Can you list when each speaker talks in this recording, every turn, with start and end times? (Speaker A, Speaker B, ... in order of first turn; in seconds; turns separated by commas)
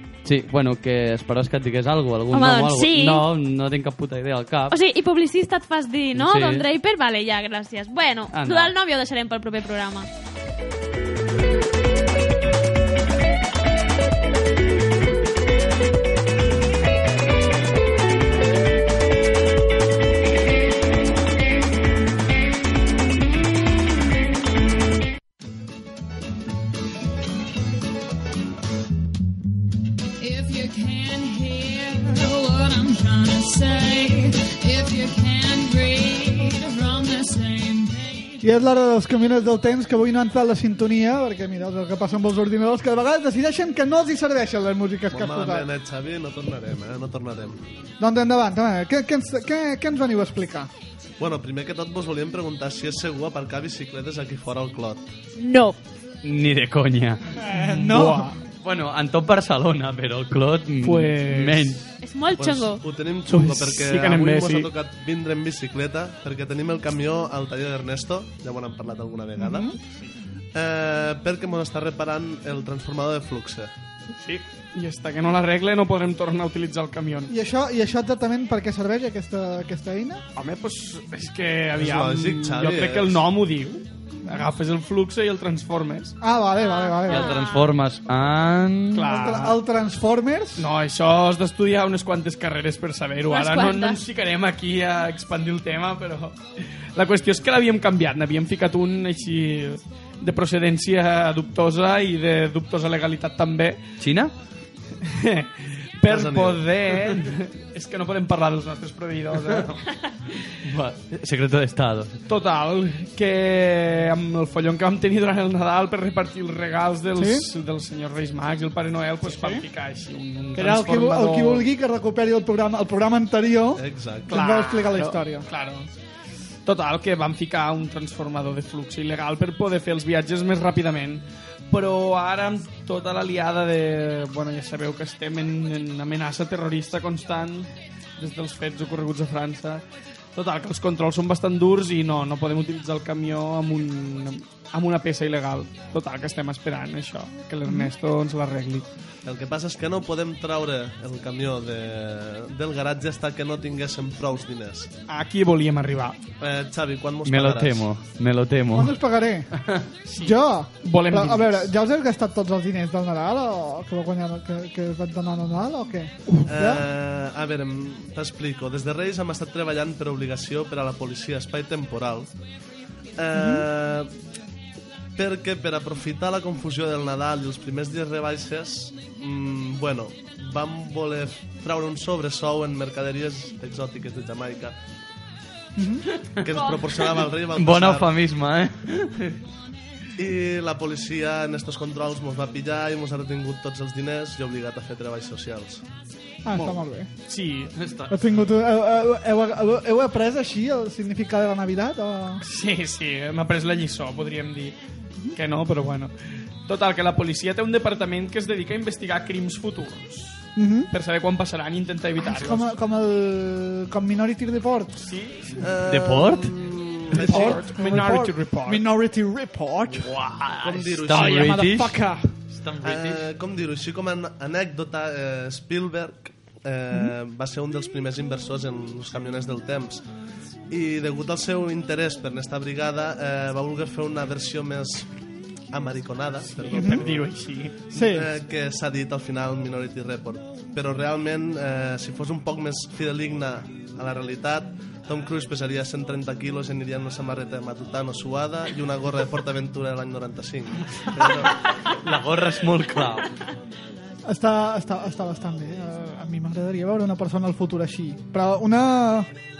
Speaker A: 0.2-4.8, Speaker B: 2.3-3.2, Speaker B: 4.7-10.1, Speaker A: 6.2-6.7, Speaker A: 8.3-8.7, Speaker C: 30.2-38.4, Speaker D: 38.4-45.7, Speaker E: 45.1-47.6, Speaker D: 48.0-50.7, Speaker E: 51.2-55.1, Speaker B: 55.4-55.8, Speaker A: 56.2-57.3, Speaker D: 57.4-58.3, Speaker F: 57.6-58.4, Speaker A: 58.5-61.9, Speaker F: 60.8-61.8, Speaker B: 62.0-62.8, Speaker E: 62.4-69.7, Speaker F: 63.3-64.7, Speaker D: 69.4-69.8, Speaker E: 70.5-73.7, Speaker F: 74.2-77.3, Speaker D: 77.3-80.2, Speaker F: 80.4-86.2, Speaker E: 81.8-83.3, Speaker D: 86.2-87.3, Speaker B: 86.6-87.7, Speaker A: 87.1-89.1, Speaker F: 89.0-89.6, Speaker D: 89.0-90.7, Speaker F: 90.6-96.4, Speaker B: 93.3-94.0, Speaker F: 97.0-103.9, Speaker A: 104.0-104.3, Speaker F: 105.0-109.8, Speaker E: 106.1-106.8, Speaker A: 110.7-112.2, Speaker F: 112.3-121.7, Speaker D: 117.2-117.5, Speaker D: 119.2-119.6, Speaker D: 120.5-125.5, Speaker E: 123.8-124.4, Speaker F: 124.3-125.9, Speaker F: 126.7-139.8, Speaker F: 140.3-148.9, Speaker E: 149.2-154.9, Speaker F: 155.1-156.2, Speaker E: 156.4-157.9, Speaker A: 157.2-158.9, Speaker D: 158.7-159.5, Speaker F: 160.1-161.7, Speaker D: 160.2-166.8, Speaker E: 166.5-172.3, Speaker E: 173.2-174.1, Speaker D: 173.3-173.7, Speaker E: 175.2-184.8, Speaker D: 185.8-186.1, Speaker E: 186.4-188.1, Speaker A: 187.5-189.3, Speaker E: 190.2-195.8, Speaker D: 196.4-197.1, Speaker F: 196.5-197.8, Speaker A: 197.8-198.1, Speaker D: 198.1-202.4, Speaker F: 202.4-204.8, Speaker F: 205.3-206.1, Speaker F: 206.7-212.7, Speaker D: 210.6-210.9, Speaker D: 212.2-215.1, Speaker F: 215.1-215.7, Speaker E: 215.6-217.7, Speaker A: 215.8-216.5, Speaker F: 217.1-218.8, Speaker D: 217.2-220.1, Speaker A: 220.0-223.2, Speaker E: 220.6-221.6, Speaker F: 221.1-221.5, Speaker D: 221.2-222.3, Speaker E: 222.8-230.1, Speaker E: 230.7-235.1, Speaker E: 235.7-237.4, Speaker F: 236.5-237.9, Speaker D: 236.7-237.0, Speaker D: 237.9-238.3, Speaker E: 238.0-251.7, Speaker A: 251.5-253.3, Speaker D: 254.3-259.3